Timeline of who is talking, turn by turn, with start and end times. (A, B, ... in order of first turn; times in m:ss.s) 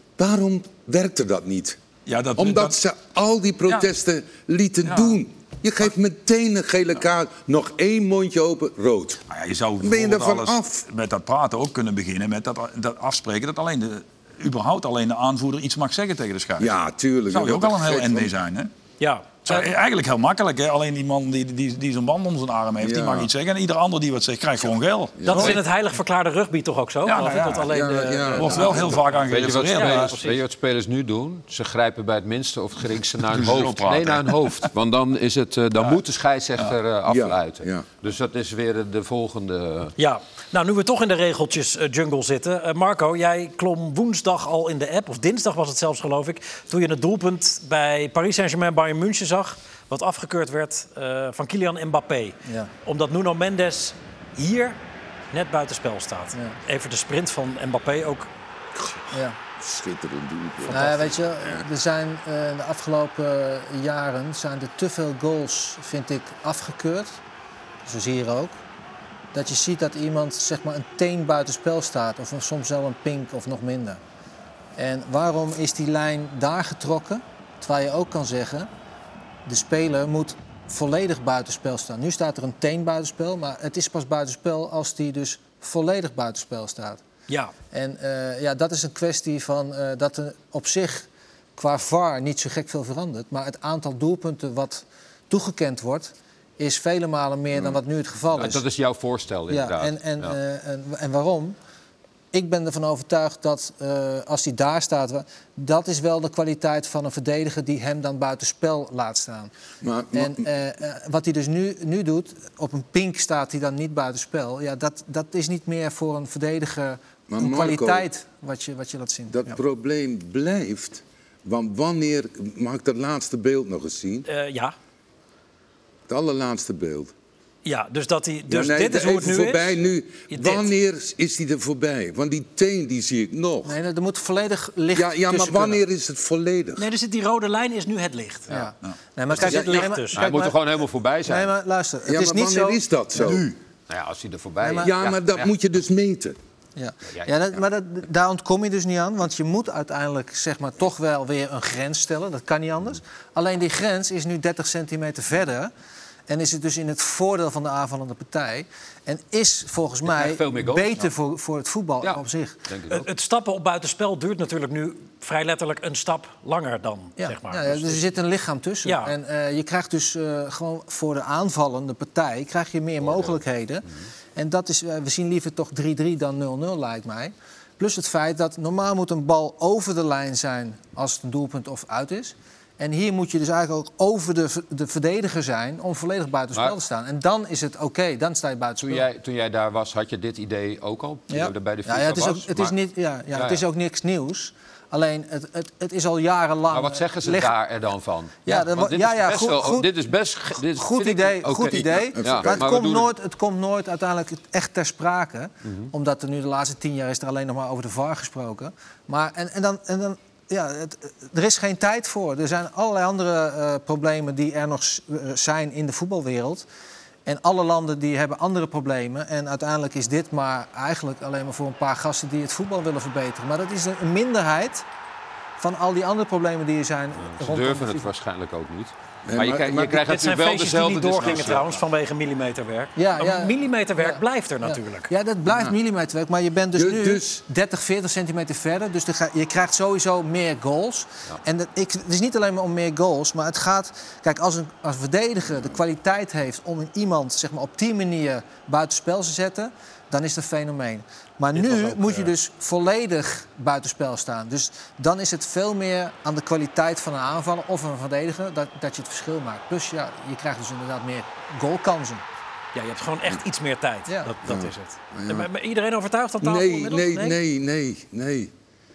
0:00.2-0:01.8 A
0:02.1-0:02.8 B
0:02.4-0:09.2 A
0:04.9-0:05.2 B
0:09.3-0:16.7 B
0:09.8-0:10.8 A
0:16.6-0:18.3 A
0:17.3-0:18.7 B
0:19.0-0:19.7 C
0:19.4-0:25.6 B
0:22.8-0:23.3 A
0:25.2-0:25.5 A
0:25.3-0:30.4 C
0:27.0-0:27.7 B
0:27.6-0:29.0 A
0:28.4-0:30.2 B
0:29.3-0:40.0 D
0:33.3-0:34.7 B
0:37.1-0:37.9 A
0:40.0-0:54.8 C
0:55.3-0:58.3 C
0:58.8-1:01.7 A
0:59.1-0:59.4 E
1:00.7-1:07.2 E
1:00.7-1:01.0 C
1:07.8-1:08.6 E
1:09.3-1:14.0 E
1:14.8-1:18.7 E
1:19.5-1:27.0 E
1:27.3-1:27.5 C
1:27.7-1:38.6 E
1:38.3-1:40.4 D
1:39.5-1:41.6 E
1:42.3-1:49.5 E
1:49.8-1:50.5 A
1:50.1-1:59.6 E
1:57.3-1:58.1 A
1:59.3-2:04.3 A
2:04.3-2:04.8 C
2:06.1-2:07.1 A
2:07.6-2:09.8 C
2:08.5-2:13.8 A
2:10.3-2:10.7 C
2:13.6-2:15.8 E
2:14.9-2:16.9 A
2:16.8-2:18.6 C
2:18.5-2:20.6 E
2:19.3-2:20.3 C
2:19.4-2:21.5 D
2:21.3-2:23.4 E
2:22.0-2:23.5 A
2:23.9-2:25.5 D
2:24.6-2:24.9 E
2:24.8-2:26.4 A
2:26.8-2:35.7 E
2:36.3-2:42.6 E
2:40.1-2:41.1 D
2:42.0-2:43.1 D
2:42.9-2:48.0 C
2:47.2-3:09.1 E
2:48.8-2:49.1 C
2:53.0-2:53.4 D
3:08.8-3:12.7 D
3:11.3-3:17.5 E
3:13.3-3:13.6 D
3:16.7-3:23.1 D
3:18.4-3:19.9 E
3:20.6-3:36.7 E
3:22.2-3:22.7 A
3:25.6-3:25.9 D
3:37.3-3:44.8 E
3:45.6-3:48.1 E
3:47.2-3:51.6 D
3:49.3-3:50.2 A
3:50.1-3:55.1 C
3:53.0-4:22.2 E
3:55.5-3:55.8 A
3:56.8-3:57.4 A
4:11.6-4:12.3 C
4:22.8-4:27.4 C
4:24.4-4:25.5 A
4:26.4-4:28.5 A